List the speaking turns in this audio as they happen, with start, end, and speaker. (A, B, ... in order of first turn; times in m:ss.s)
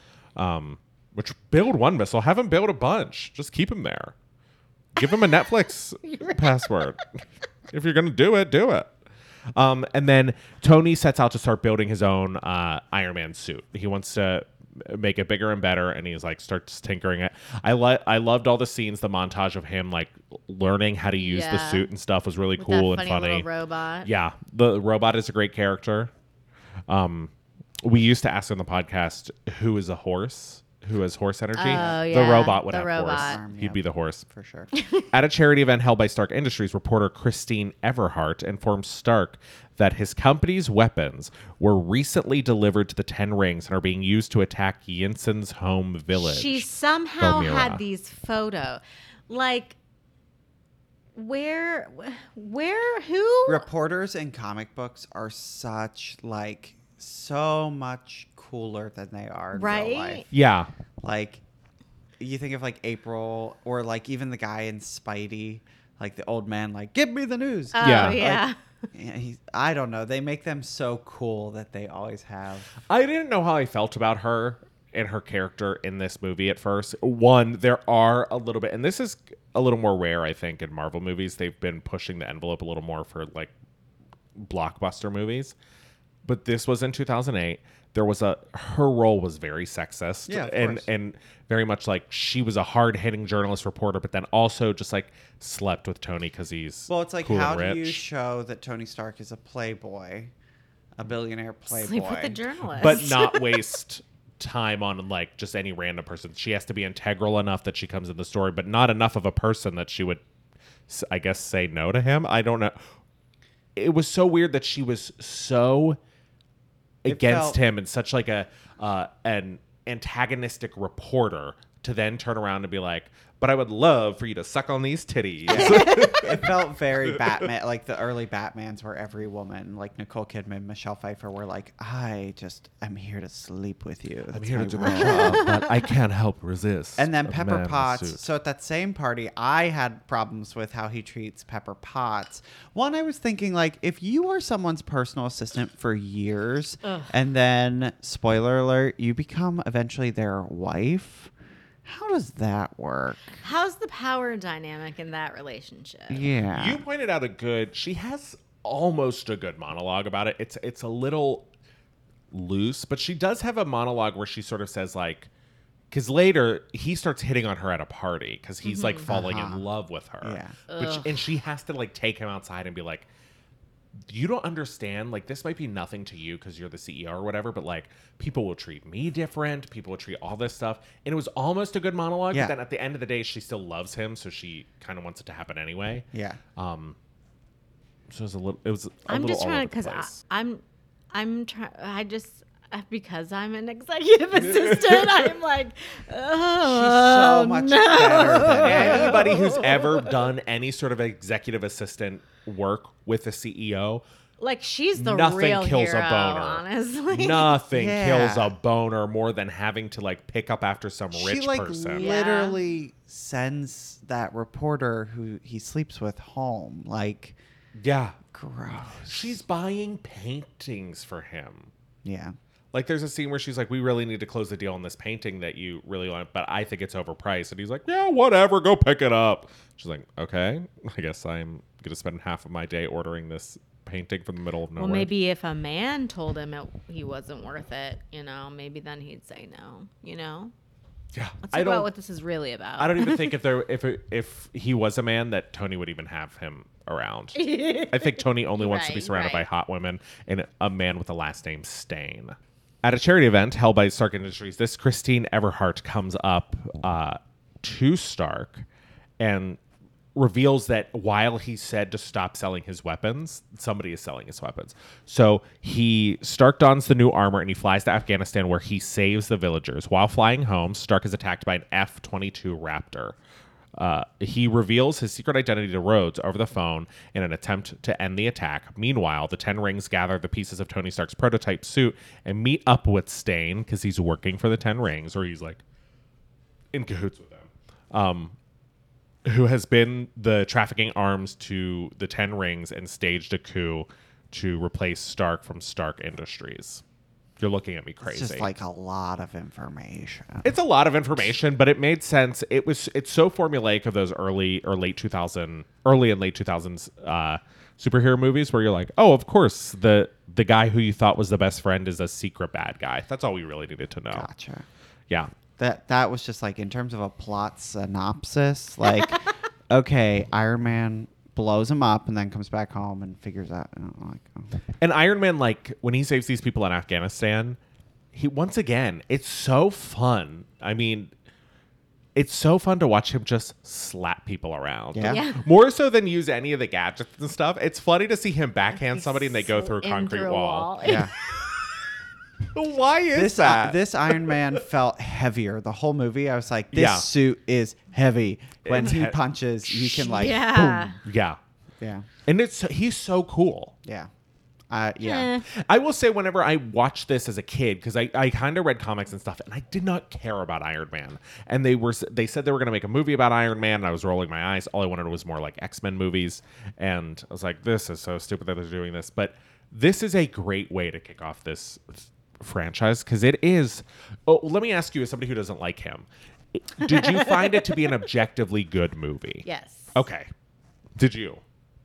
0:00.4-0:04.1 A
0:05.0-0:07.0 A
0:06.0-0:06.7 B
0:07.7-0:08.9 A
0:09.6-0:23.5 A
0:21.2-0:21.9 B
0:22.6-0:24.1 B
0:24.0-0:26.1 A
0:26.9-0:27.3 A
0:27.8-0:34.3 A
0:31.6-0:33.4 B
0:31.6-0:32.1 C
0:33.1-0:34.7 C
0:35.1-0:46.7 A
0:46.2-0:49.8 B
0:47.2-0:47.8 A
0:51.2-0:53.7 B
0:53.5-1:00.3 C
0:59.5-1:00.2 B
1:00.3-1:00.7 A
1:01.0-1:01.4 C
1:02.2-1:12.7 C
1:07.7-1:08.6 B
1:07.8-1:08.2 A
1:12.9-1:23.5 A
1:24.4-1:25.6 A
1:26.2-1:38.0 A
1:30.3-1:30.9 C
1:36.9-1:40.3 C
1:41.0-1:42.4 C
1:41.7-1:43.6 B
1:42.8-1:50.2 A
1:50.9-1:52.8 A
1:53.8-1:56.0 A
1:57.0-2:06.6 A
1:57.1-1:57.6 C
2:05.5-2:15.4 C
2:14.3-2:18.2 A
2:14.9-2:15.7 B
2:17.0-2:31.3 C
2:26.8-2:27.1 B
2:31.8-2:33.4 C
2:33.4-2:36.3 B
2:36.1-2:36.8 C
2:36.5-2:41.5 A
2:42.3-2:45.3 A
2:45.9-2:53.1 A
2:48.6-2:49.1 B
2:49.1-2:49.6 C
2:50.2-2:50.6 C
2:50.7-2:51.2 B
2:54.1-3:07.0 A
3:06.1-3:06.4 C
3:08.1-3:10.2 A
3:09.1-3:19.9 B
3:14.4-3:15.3 A
3:16.6-3:19.4 C
3:18.6-3:24.0 A
3:24.4-3:27.6 B
3:25.0-3:32.1 A
3:27.7-3:28.6 C
3:31.1-3:37.4 C
3:32.0-3:32.6 B
3:37.8-3:38.2 A
3:38.3-3:39.4 C
3:39.0-3:41.7 A
3:42.0-3:42.4 C
3:42.7-3:55.1 A
3:54.8-4:00.5 B
4:01.1-4:01.9 A
4:01.4-4:03.3 B
4:02.8-4:18.7 A
4:07.4-4:09.5 B
4:19.2-4:19.6 A
4:20.2-4:33.2 A
4:33.8-4:45.6 A
4:46.7-4:48.4 A
4:49.3-4:56.8 A
4:57.4-4:58.5 A
4:58.0-5:00.5 C
5:00.4-5:14.3 A
5:14.1-5:14.7 C
5:15.6-5:24.5 C
5:24.8-5:27.6 A
5:28.1-5:31.1 A
5:32.2-5:41.0 A
5:34.9-5:35.2 C
5:35.1-5:35.4 B
5:38.8-5:41.1 B
5:40.8-5:41.1 C
5:42.5-5:44.4 A
5:43.1-5:51.0 C
5:46.7-5:47.1 A
5:48.6-5:50.3 A
5:50.0-5:51.0 B
5:51.0-5:51.4 A
5:51.8-5:52.1 C
5:52.2-5:53.7 A
5:53.8-5:54.1 C
5:54.7-5:55.3 C
5:55.0-5:55.5 B
5:55.5-6:20.3 A
6:16.8-6:17.7 B
6:19.4-6:20.0 B
6:21.0-6:21.4 A